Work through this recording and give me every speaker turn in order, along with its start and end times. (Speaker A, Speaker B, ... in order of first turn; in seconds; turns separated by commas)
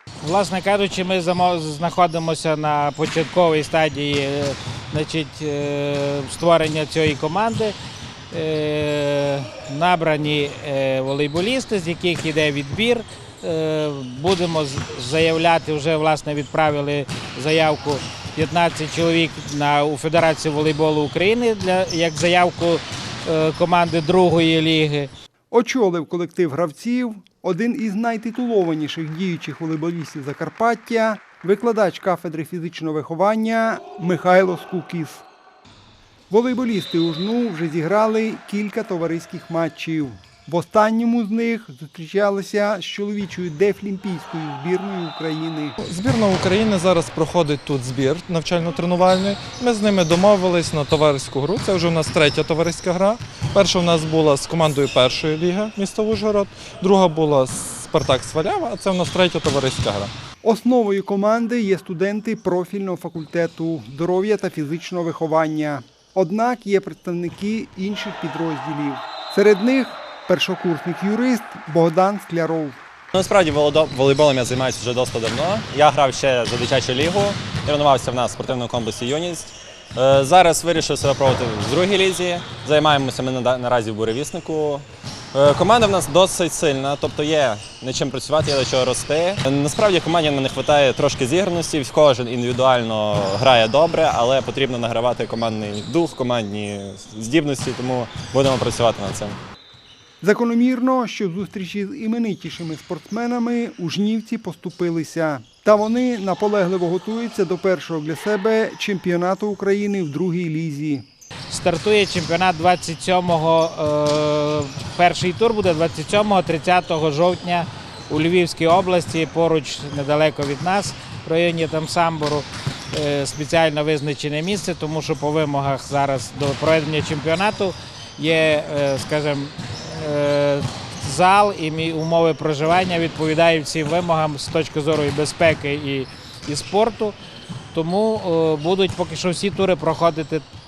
Speaker A: 0.2-7.7, Speaker A: 8.3-25.1, Speaker B: 25.5-35.2, Speaker B: 36.3-45.8, Speaker C: 45.8-60.1, Speaker B: 60.4-72.8, Speaker D: 73.1-99.4, Speaker B: 100.2-111.0, Speaker A: 111.5-137.2, Speaker A: 137.7-140.4